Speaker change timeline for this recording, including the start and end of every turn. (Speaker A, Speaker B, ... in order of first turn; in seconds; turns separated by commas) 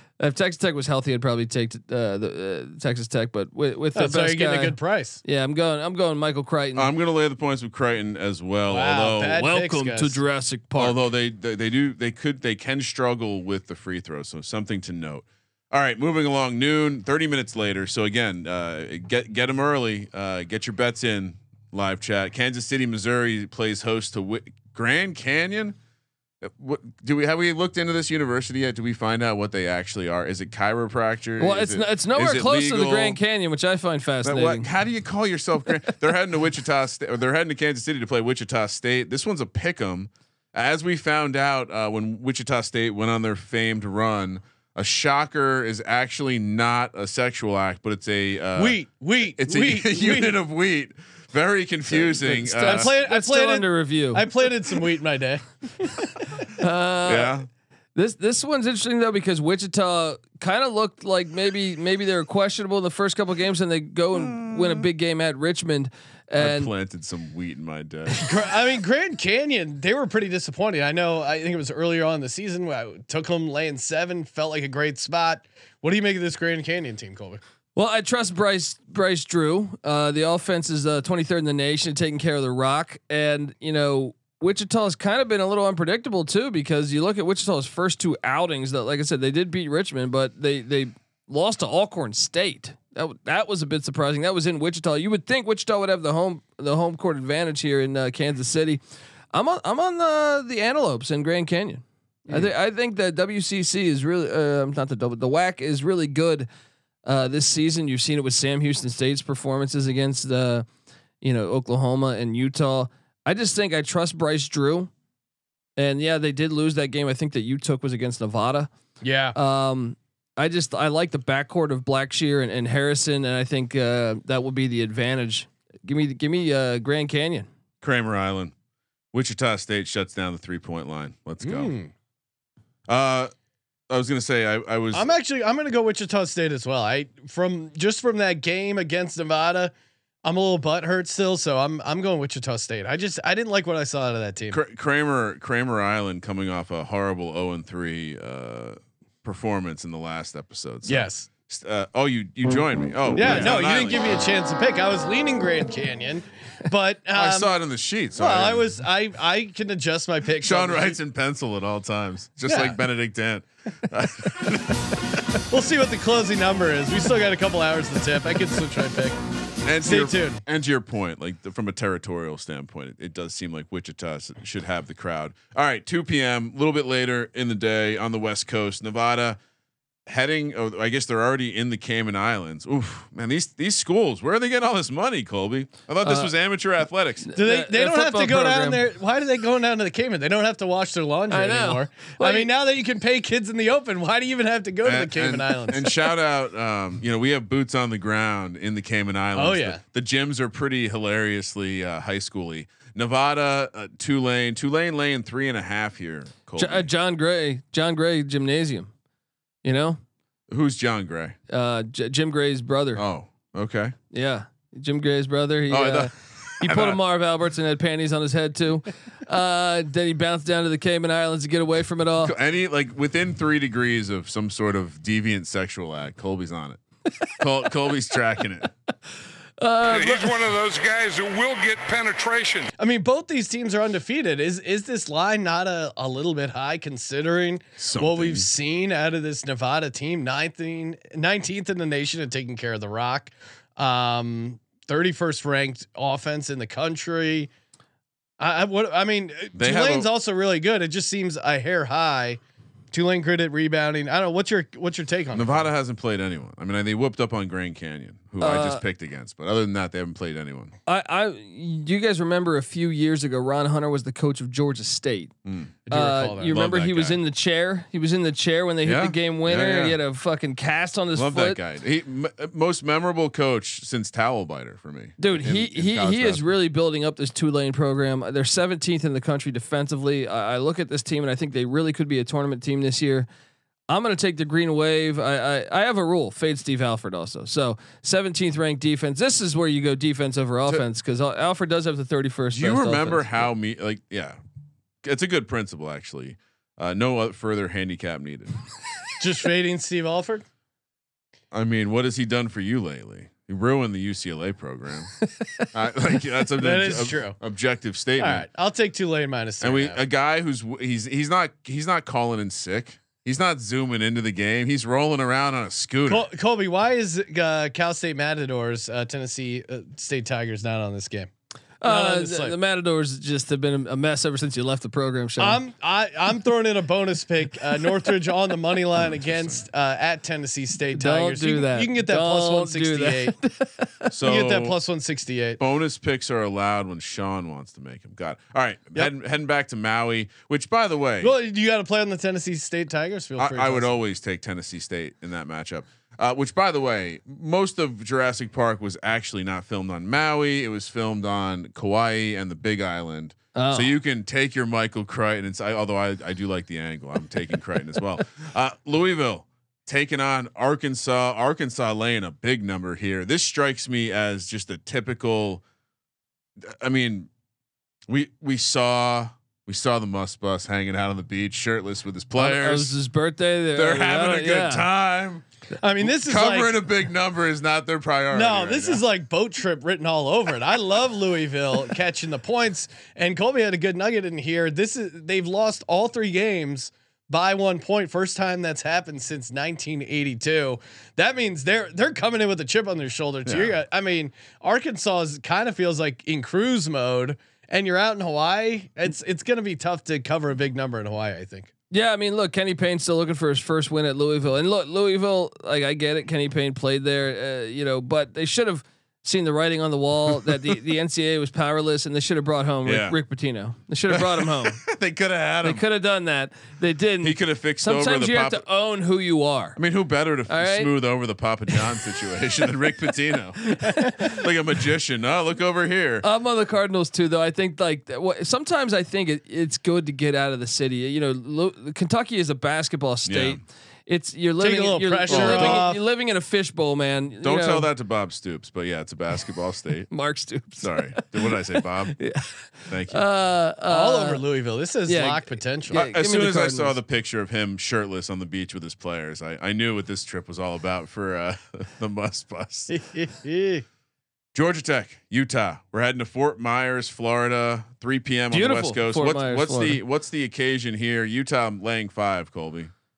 Speaker A: 0.2-6.9, Speaker B: 3.9-5.2, Speaker C: 6.8-9.4, Speaker B: 8.7-10.2, Speaker A: 9.4-11.0, Speaker C: 10.8-25.8, Speaker C: 26.4-33.2, Speaker A: 31.4-34.7, Speaker C: 34.2-48.8, Speaker B: 48.5-50.4, Speaker C: 49.3-52.9, Speaker A: 52.0-54.3, Speaker B: 52.6-56.0, Speaker A: 56.6-57.4, Speaker C: 57.0-57.5, Speaker A: 57.9-66.7, Speaker C: 64.2-64.8, Speaker C: 66.4-68.2, Speaker B: 68.2-77.4, Speaker A: 77.8-98.8, Speaker A: 99.3-106.5, Speaker A: 107.0-110.7, Speaker A: 111.2-114.9, Speaker A: 115.8-118.7, Speaker B: 119.0-119.3, Speaker A: 119.3-127.5, Speaker C: 127.8-128.5, Speaker C: 129.1-131.7, Speaker B: 131.4-131.9, Speaker C: 132.9-133.3, Speaker C: 133.9-135.1, Speaker B: 134.9-139.7, Speaker B: 140.2-144.6, Speaker C: 144.5-154.1, Speaker B: 150.8-151.3, Speaker B: 153.2-157.6, Speaker C: 157.1-158.7, Speaker B: 158.2-161.0, Speaker C: 160.4-165.0, Speaker B: 162.5-162.8, Speaker B: 165.5-169.2, Speaker C: 169.6-179.4, Speaker B: 169.8-170.4, Speaker C: 180.1-187.3, Speaker A: 186.0-186.3, Speaker A: 187.3-188.8, Speaker B: 187.3-196.0, Speaker A: 191.3-192.5, Speaker C: 194.8-206.9, Speaker B: 199.3-199.8, Speaker A: 206.6-208.9, Speaker A: 209.6-210.0, Speaker C: 210.5-211.4, Speaker A: 211.5-213.0, Speaker C: 212.9-213.9, Speaker A: 214.1-222.3, Speaker C: 215.7-217.0, Speaker C: 222.2-226.8, Speaker C: 227.4-228.7, Speaker A: 229.6-230.4, Speaker D: 229.9-232.7, Speaker B: 232.8-247.5, Speaker C: 237.8-238.5, Speaker B: 248.4-252.4, Speaker C: 249.5-250.1, Speaker B: 252.9-255.7, Speaker C: 255.3-260.7, Speaker A: 258.4-258.8, Speaker A: 260.9-265.3, Speaker C: 265.4-265.7, Speaker B: 265.9-266.5, Speaker A: 265.9-271.6, Speaker C: 266.5-267.2, Speaker C: 268.8-270.0, Speaker C: 271.1-276.4, Speaker A: 275.2-283.3, Speaker A: 283.9-293.4, Speaker C: 292.5-294.4, Speaker C: 295.0-298.6, Speaker B: 299.2-300.4, Speaker C: 301.5-305.1, Speaker C: 305.7-308.5, Speaker B: 306.6-307.4, Speaker B: 308.2-310.0, Speaker C: 309.6-316.3, Speaker B: 316.1-321.3, Speaker A: 321.8-325.6, Speaker B: 321.8-322.5, Speaker B: 325.4-333.3, Speaker C: 329.0-329.6, Speaker A: 330.9-334.1, Speaker C: 334.1-334.8, Speaker B: 334.2-335.6, Speaker C: 335.6-341.3, Speaker B: 341.2-343.9, Speaker C: 343.4-365.6, Speaker A: 353.5-353.9, Speaker C: 366.6-367.3, Speaker C: 368.1-372.9, Speaker A: 372.4-374.9, Speaker C: 373.7-375.4, Speaker B: 375.8-376.8, Speaker C: 376.0-379.0, Speaker B: 378.3-401.7, Speaker C: 393.4-393.7, Speaker A: 401.9-414.9, Speaker C: 410.3-410.6, Speaker C: 412.8-413.2, Speaker C: 414.1-415.8, Speaker A: 415.6-419.8, Speaker C: 417.2-418.6, Speaker C: 419.8-426.2, Speaker A: 420.5-420.9, Speaker A: 423.7-424.4, Speaker A: 426.2-437.9, Speaker C: 433.2-433.6, Speaker B: 434.6-436.0, Speaker C: 435.3-435.9, Speaker C: 437.4-440.1, Speaker A: 440.1-441.6, Speaker C: 440.8-442.2, Speaker A: 442.1-442.6, Speaker C: 442.9-443.2, Speaker A: 443.1-444.4, Speaker B: 443.9-446.0, Speaker A: 445.1-446.9, Speaker C: 445.9-452.9, Speaker B: 452.9-453.8, Speaker C: 454.5-462.9, Speaker A: 458.5-460.0